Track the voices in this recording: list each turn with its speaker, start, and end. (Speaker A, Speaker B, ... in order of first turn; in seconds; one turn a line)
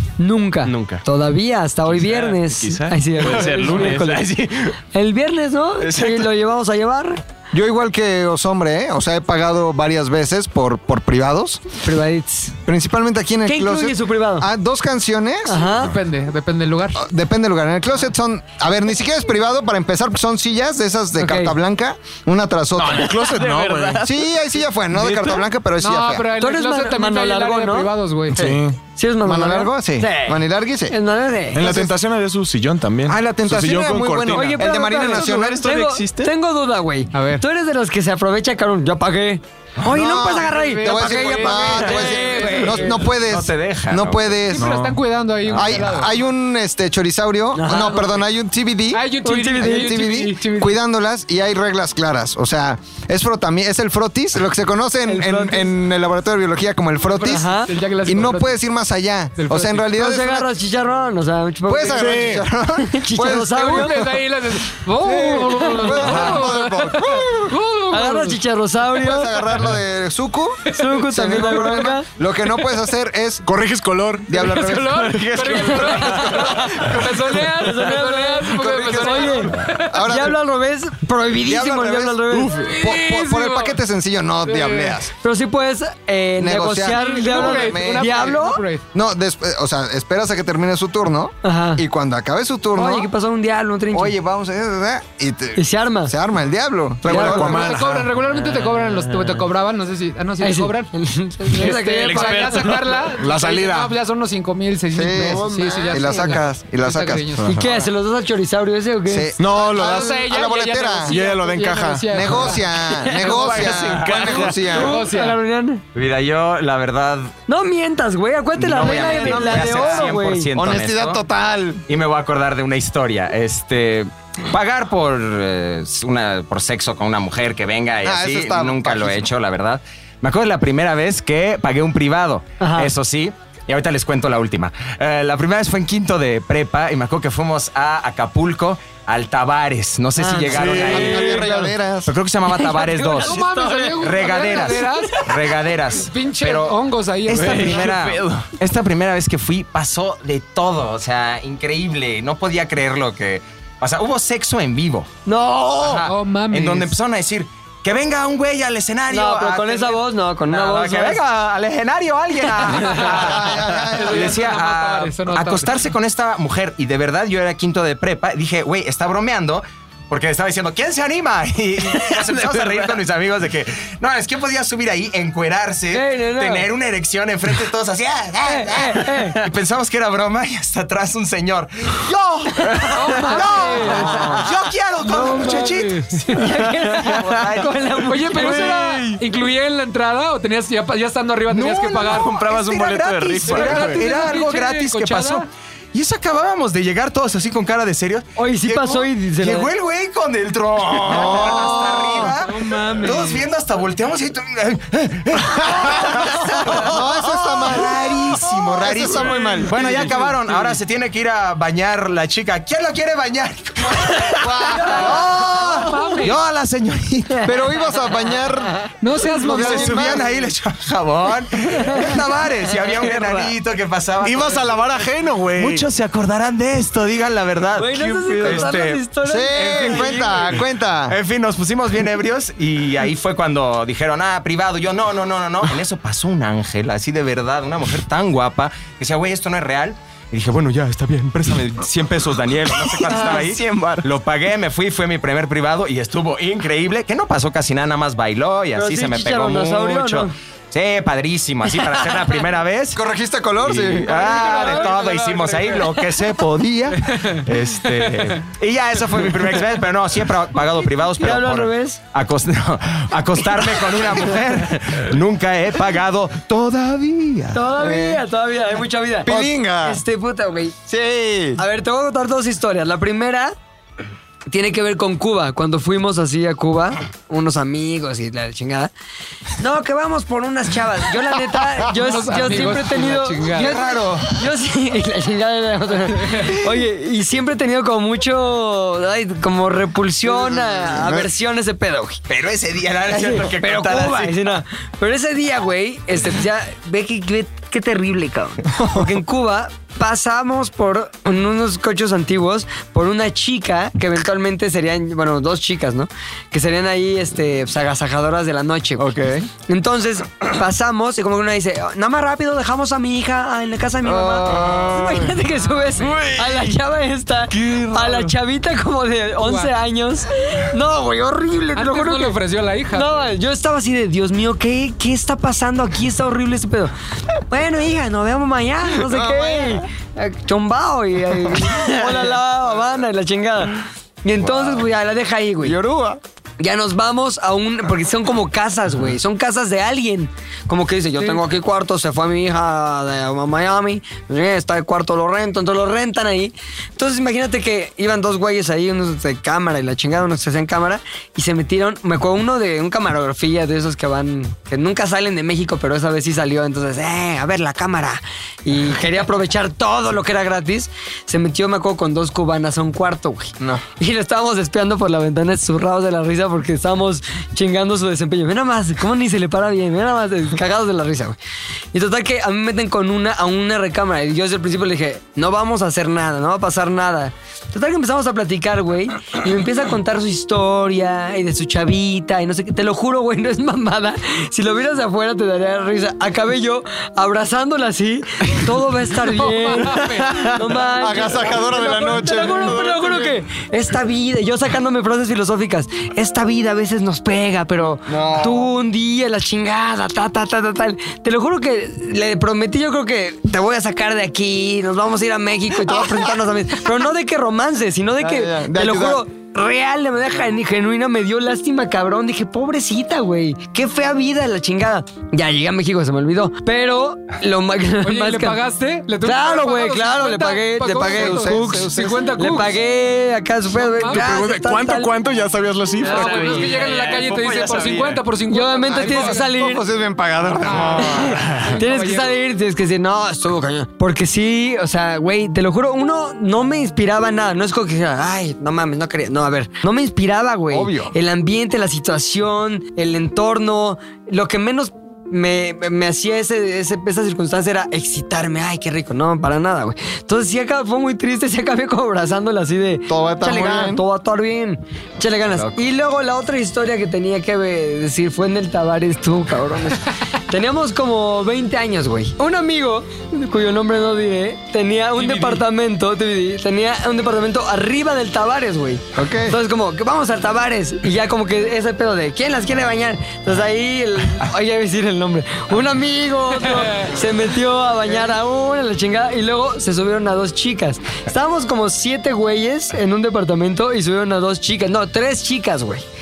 Speaker A: 0.2-4.3
Speaker B: 0.6-1.0
Speaker B: 1.9-4.8
Speaker C: 3.4-3.9
Speaker A: 4.9-7.2
Speaker B: 5.8-6.3
Speaker D: 7.5-11.7
Speaker A: 11.8-12.6
Speaker D: 12.7-15.6
Speaker A: 13.4-14.5
Speaker A: 15.4-15.9
Speaker E: 15.7-17.0
Speaker D: 16.9-23.1
Speaker A: 21.2-21.6
Speaker C: 22.8-24.1
Speaker B: 22.8-25.4
Speaker D: 24.0-26.3
Speaker E: 25.8-28.4
Speaker A: 26.4-31.8
Speaker C: 28.3-28.8
Speaker D: 29.2-30.9
Speaker C: 31.5-34.6
Speaker D: 31.6-31.9
Speaker D: 33.1-35.6
Speaker A: 34.3-43.0
Speaker B: 34.9-36.3
Speaker E: 37.1-37.4
Speaker D: 39.8-44.7
Speaker E: 40.5-43.1
Speaker F: 43.0-44.5
Speaker E: 44.5-46.1
Speaker C: 44.5-45.0
Speaker D: 45.5-60.5
Speaker A: 47.5-48.2
Speaker E: 48.9-50.8
Speaker A: 49.2-50.1
Speaker A: 55.1-55.7
Speaker E: 57.1-58.6
Speaker A: 57.2-57.7
Speaker E: 59.4-59.9
Speaker A: 59.9-64.0
Speaker D: 61.7-64.2
Speaker C: 61.9-62.5
Speaker E: 63.4-68.4
Speaker D: 65.0-67.6
Speaker C: 66.0-66.5
Speaker A: 67.9-69.5
Speaker D: 68.9-73.5
Speaker A: 70.7-72.1
Speaker E: 70.8-71.8
Speaker C: 73.4-76.3
Speaker D: 74.3-75.4
Speaker E: 74.3-79.8
Speaker B: 75.4-75.9
Speaker A: 75.5-82.6
Speaker D: 78.5-80.4
Speaker D: 81.4-85.1
Speaker C: 82.3-82.7
Speaker E: 82.6-83.8
Speaker E: 84.4-85.0
Speaker A: 85.2-88.7
Speaker D: 86.4-93.1
Speaker E: 86.9-88.8
Speaker A: 91.4-91.8
Speaker A: 92.7-94.1
Speaker D: 93.9-97.8
Speaker A: 95.6-96.1
Speaker C: 97.0-98.1
Speaker A: 97.1-97.6
Speaker E: 97.3-100.9
Speaker A: 100.4-102.6
Speaker E: 101.5-107.6
Speaker B: 101.6-103.1
Speaker C: 103.1-103.9
Speaker D: 104.9-107.5
Speaker A: 105.1-106.4
Speaker C: 107.4-107.7
Speaker A: 107.4-109.3
Speaker D: 109.1-111.2
Speaker C: 109.4-110.2
Speaker E: 109.7-112.7
Speaker C: 111.0-112.5
Speaker D: 112.1-115.0
Speaker B: 112.9-114.8
Speaker C: 113.4-113.7
Speaker A: 114.6-115.8
Speaker E: 114.7-115.4
Speaker F: 115.9-117.3
Speaker A: 117.5-120.5
Speaker F: 118.5-121.2
Speaker D: 119.1-121.8
Speaker F: 121.9-155.1
Speaker D: 128.0-129.3
Speaker A: 132.6-132.9
Speaker A: 140.2-141.6
Speaker C: 140.5-141.4
Speaker D: 140.5-142.1
Speaker A: 142.5-144.6
Speaker E: 142.9-145.2
Speaker E: 146.0-147.9
Speaker B: 147.3-148.5
Speaker A: 155.2-156.1
Speaker F: 155.8-188.8
Speaker E: 156.1-156.9
Speaker A: 159.1-161.2
Speaker E: 162.7-163.2
Speaker D: 162.9-164.4
Speaker E: 163.8-165.8
Speaker B: 171.8-173.0
Speaker A: 175.9-176.7
Speaker A: 178.4-179.4
Speaker A: 182.7-184.4
Speaker E: 182.9-184.1
Speaker A: 185.1-185.7
Speaker E: 185.1-186.4
Speaker A: 186.2-188.8
Speaker E: 188.1-192.3
Speaker B: 188.6-189.2
Speaker F: 191.5-217.5
Speaker B: 192.0-194.0
Speaker E: 193.5-195.4
Speaker C: 193.7-193.9
Speaker A: 198.4-199.7
Speaker D: 201.0-202.2
Speaker E: 201.3-203.4
Speaker A: 206.3-206.6
Speaker D: 206.7-210.1
Speaker E: 209.3-210.7
Speaker D: 214.4-215.3
Speaker A: 214.7-215.9
Speaker E: 215.6-216.4
Speaker D: 217.4-220.3
Speaker E: 219.0-220.2
Speaker F: 219.5-224.7
Speaker A: 221.8-222.1
Speaker C: 224.2-225.9
Speaker F: 225.6-229.0
Speaker A: 227.7-230.4
Speaker D: 229.2-231.2
Speaker F: 229.5-253.0
Speaker B: 243.0-244.1
Speaker A: 248.7-250.3
Speaker D: 252.9-254.6
Speaker F: 253.6-267.6
Speaker E: 254.1-256.0
Speaker D: 256.6-257.0
Speaker E: 257.1-258.3
Speaker A: 261.2-262.0
Speaker A: 267.5-270.8
Speaker D: 267.8-268.2
Speaker D: 269.2-270.0
Speaker D: 270.9-271.6
Speaker A: 271.6-273.6
Speaker A: 274.5-278.9
Speaker A: 279.6-292.2
Speaker E: 281.9-283.8
Speaker F: 283.5-284.3
Speaker E: 286.2-286.5
Speaker D: 290.3-291.3
Speaker F: 292.3-294.6
Speaker A: 293.1-309.1
Speaker D: 298.7-299.1
Speaker D: 309.0-309.5
Speaker A: 309.7-322.4
Speaker D: 314.0-315.4
Speaker E: 315.5-316.2
Speaker E: 319.4-319.7
Speaker E: 321.7-323.3
Speaker A: 322.9-326.9
Speaker A: 327.5-335.8
Speaker D: 328.9-329.8
Speaker D: 331.6-332.2
Speaker D: 335.6-336.2
Speaker A: 336.6-371.4
Speaker A: 371.9-418.6
Speaker E: 389.1-390.6
Speaker D: 390.9-393.4
Speaker D: 398.1-398.7
Speaker D: 405.9-406.2
Speaker D: 408.2-409.2
Speaker E: 418.0-422.8
Speaker A: 419.2-425.1
Speaker D: 421.0-422.3
Speaker E: 423.7-424.4
Speaker C: 424.1-426.8
Speaker E: 426.0-429.6
Speaker B: 426.0-428.2
Speaker A: 426.1-426.8
Speaker A: 428.5-429.8
Speaker D: 428.9-431.7
Speaker E: 430.6-432.4
Speaker A: 431.0-486.1
Speaker D: 440.7-441.1
Speaker D: 453.1-454.0
Speaker E: 465.2-465.6
Speaker D: 469.1-469.6
Speaker E: 476.6-477.1